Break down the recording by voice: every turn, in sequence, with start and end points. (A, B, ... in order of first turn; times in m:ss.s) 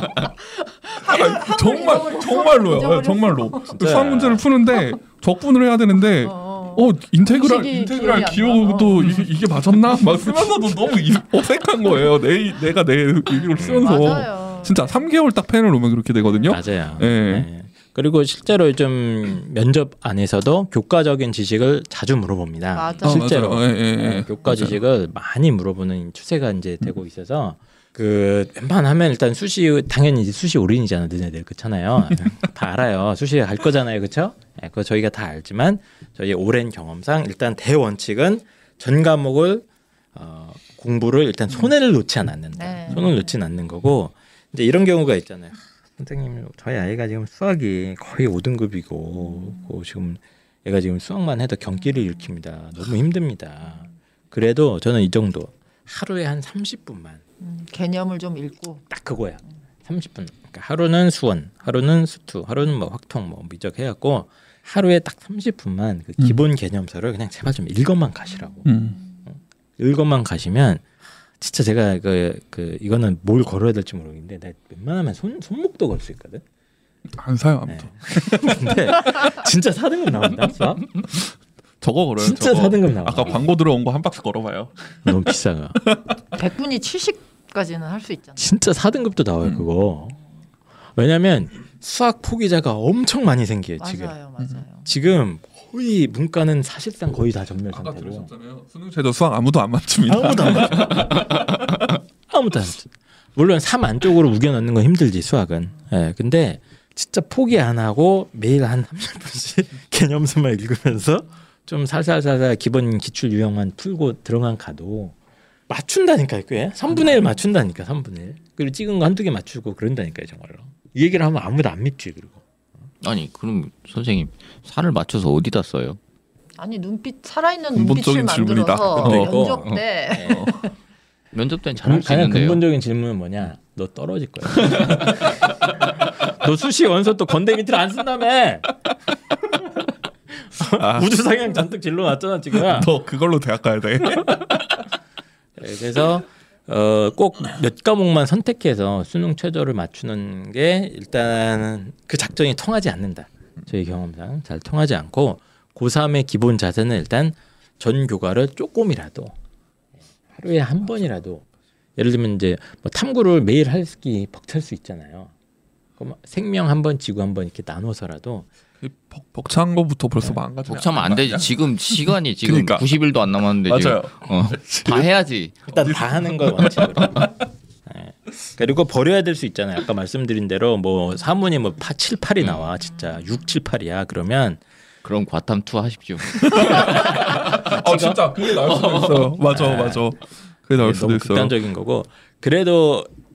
0:00.7-0:03.8 A
0:01.0-0:17.5 B
0:03.7-0:04.5 C
0:06.2-0:09.3 A
0:13.6-0:14.1 C
0:13.8-0:15.1 A
0:16.2-0:16.6 A
0:16.5-0:57.2 C
0:22.7-0:23.4 A
0:23.0-0:24.8 B
0:42.5-0:43.2 A
0:57.4-0:58.8 A
0:58.9-1:08.7 C
1:08.6-1:09.0 B
1:09.3-1:10.8 C
1:11.4-1:16.4 C
1:17.1-1:19.2 B
1:17.7-1:20.9 C
1:21.8-1:25.1 B
1:22.2-1:23.4 C
1:25.0-1:25.8 C
1:26.3-1:28.6 A
1:28.4-1:30.2 C
1:31.0-1:34.1 C
1:33.8-1:34.9 A
1:34.8-1:38.3 C
1:37.7-1:41.5 B
1:40.1-1:41.4 C
1:42.3-1:55.1 C
1:55.7-2:02.4 C
2:03.0-2:06.0 D
2:06.6-2:10.7 A
2:07.7-2:09.4 B
2:09.0-2:10.5 C
2:10.3-2:10.6 B
2:11.3-2:12.6 D
2:11.7-2:18.7 C
2:14.6-2:14.9 D
2:20.3-2:22.9 C
2:20.8-2:21.1 B
2:22.6-2:24.8 B
2:25.6-2:39.3 C
2:40.3-2:41.4 C
2:42.0-2:45.3 C
2:46.0-2:48.5 C
2:48.8-2:52.9 B
2:50.7-2:55.6 D
2:53.6-2:55.1 B
2:55.7-2:57.3 C
2:55.8-2:57.3 B
2:57.8-3:04.6 C
3:02.4-3:02.7 D
3:05.0-3:07.6 D
3:06.3-3:11.5 B
3:06.6-3:08.2 C
3:08.6-3:09.3 D
3:09.5-3:10.1 C
3:10.7-3:13.1 C